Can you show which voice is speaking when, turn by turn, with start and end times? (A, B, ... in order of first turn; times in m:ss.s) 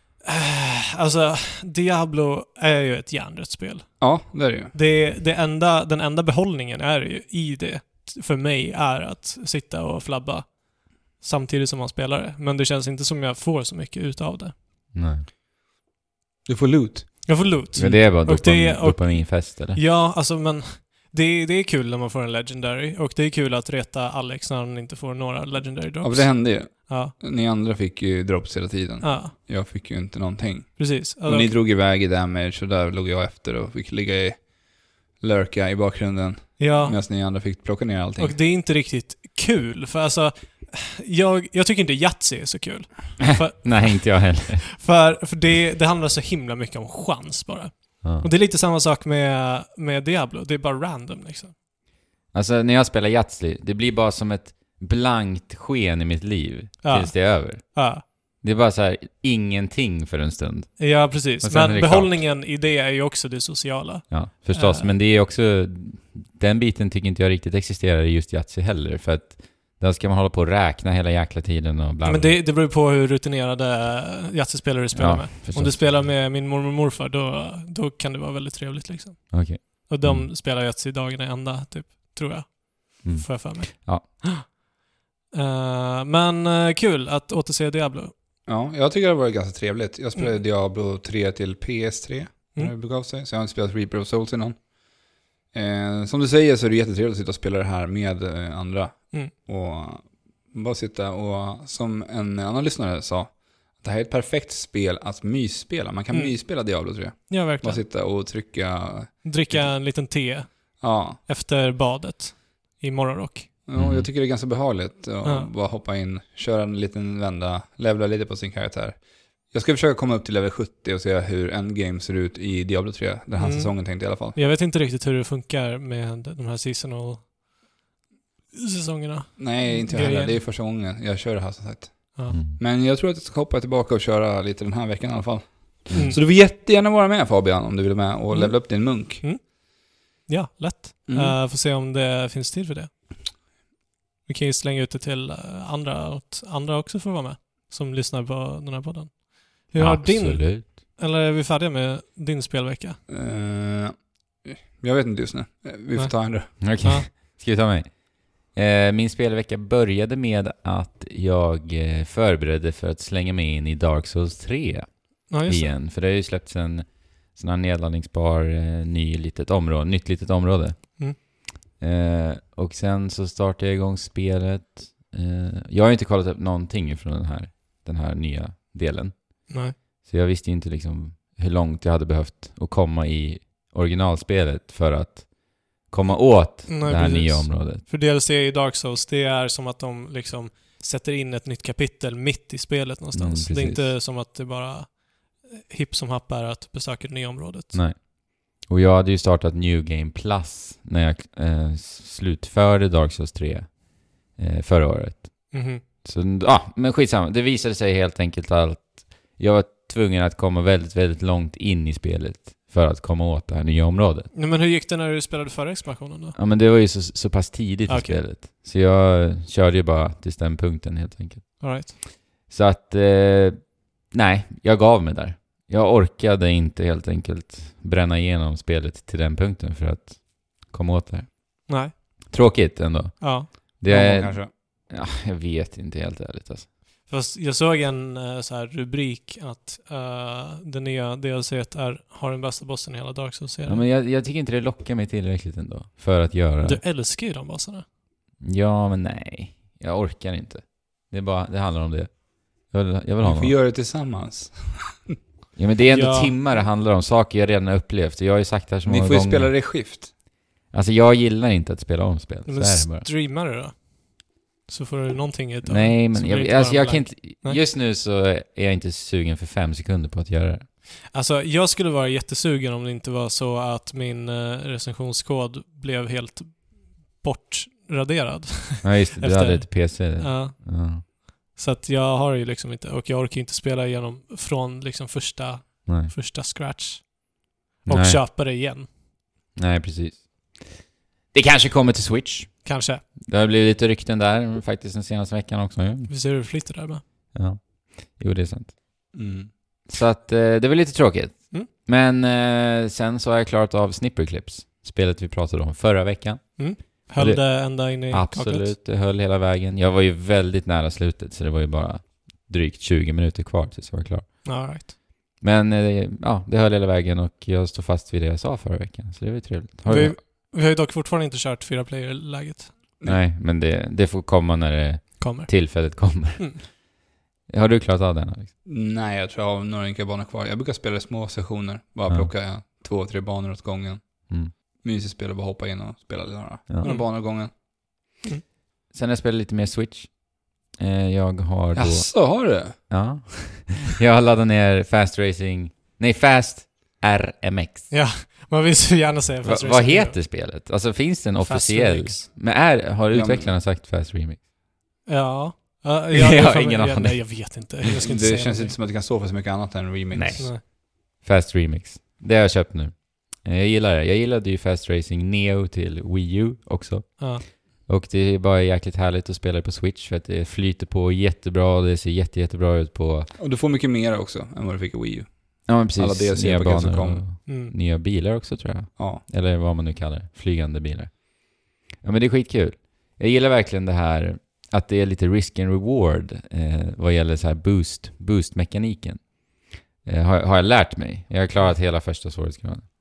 0:00.2-0:14.6 A
0:04.0-0:04.7 B
0:14.9-0:15.2 C
0:16.4-0:18.0 B
0:17.2-0:27.1 A
0:17.7-0:19.8 C
0:26.0-0:38.4 B
0:29.0-0:29.3 A
0:30.8-0:31.6 A
0:36.6-0:37.0 A
0:38.2-0:51.5 A
0:43.3-0:44.6 C
0:48.0-0:48.3 C
0:52.3-1:02.2 C
0:56.8-0:58.0 A
1:00.8-1:04.9 A
1:04.1-1:12.4 C
1:12.0-1:24.6 A
1:14.9-1:16.0 C
1:19.3-1:20.3 C
1:23.0-1:24.0 C
1:25.3-1:28.1 A
1:28.4-1:49.7 B
1:46.1-1:46.4 A
1:47.3-1:47.8 A
1:49.2-1:53.5 A
1:50.8-1:51.2 B
1:53.6-2:04.4 B
1:53.7-1:54.1 C
1:55.2-1:55.5 A
2:03.4-2:07.4 A
2:08.5-2:10.4 A
2:09.4-2:19.2 B
2:12.3-2:12.6 C
2:15.9-2:16.2 A
2:18.3-2:23.2 A
2:21.1-2:21.4 B
2:24.2-2:33.0 A
2:29.8-2:30.7 C
2:33.1-2:36.6 B
2:35.9-2:37.1 A
2:36.6-3:07.8 C
2:45.3-2:45.7 A
2:59.5-2:59.7 A
3:06.7-3:17.8 A
3:13.1-3:13.9 C
3:17.7-3:34.3 C
3:25.5-3:25.8 A
3:34.3-3:36.4 A
3:36.3-3:41.9 C
3:37.9-3:38.2 A
3:41.6-3:41.9 A
3:42.5-3:51.7 C
3:51.7-3:51.9 A
3:52.3-3:56.7 C
3:53.2-3:53.5 A
3:53.9-3:54.5 B
3:57.1-4:03.8 A
4:03.6-4:06.8 C
4:06.6-4:07.8 A
4:08.4-4:13.6 C
4:13.2-4:15.2 B
4:15.6-4:19.5 C
4:15.9-4:16.4 A
4:18.8-4:20.1 B
4:20.7-4:23.1 C
4:22.4-4:27.6 A
4:25.6-4:30.7 C
4:31.1-4:48.9 A
4:38.8-4:41.0 C
4:45.8-4:46.1 C
4:47.9-4:48.2 C
4:49.5-4:56.1 C
4:52.6-4:53.0 A
4:56.1-4:57.0 A
4:57.3-4:58.8 C
4:59.1-4:59.5 B
4:59.9-5:14.6 C
5:06.6-5:08.7 A
5:14.4-5:14.9 A
5:15.4-5:20.2 C
5:19.8-5:22.7 A
5:23.0-5:26.8 C
5:25.2-5:26.6 A
5:27.5-5:28.5 C
5:28.6-5:37.5 B
5:36.7-5:36.9 C
5:36.8-5:37.1 A
5:38.9-5:47.9 C
5:41.7-5:42.9 B
5:47.9-5:50.3 A
5:49.4-5:54.4 C
5:51.4-5:52.3 A
5:53.1-5:53.5 B
5:55.0-5:58.8 A
5:56.1-5:57.4 C
5:58.0-6:00.5 B
6:00.1-6:13.3 C
6:07.2-6:07.4 A
6:13.4-6:17.3 B
6:15.6-6:32.8 C
6:17.4-6:17.7 A
6:19.0-6:19.2 B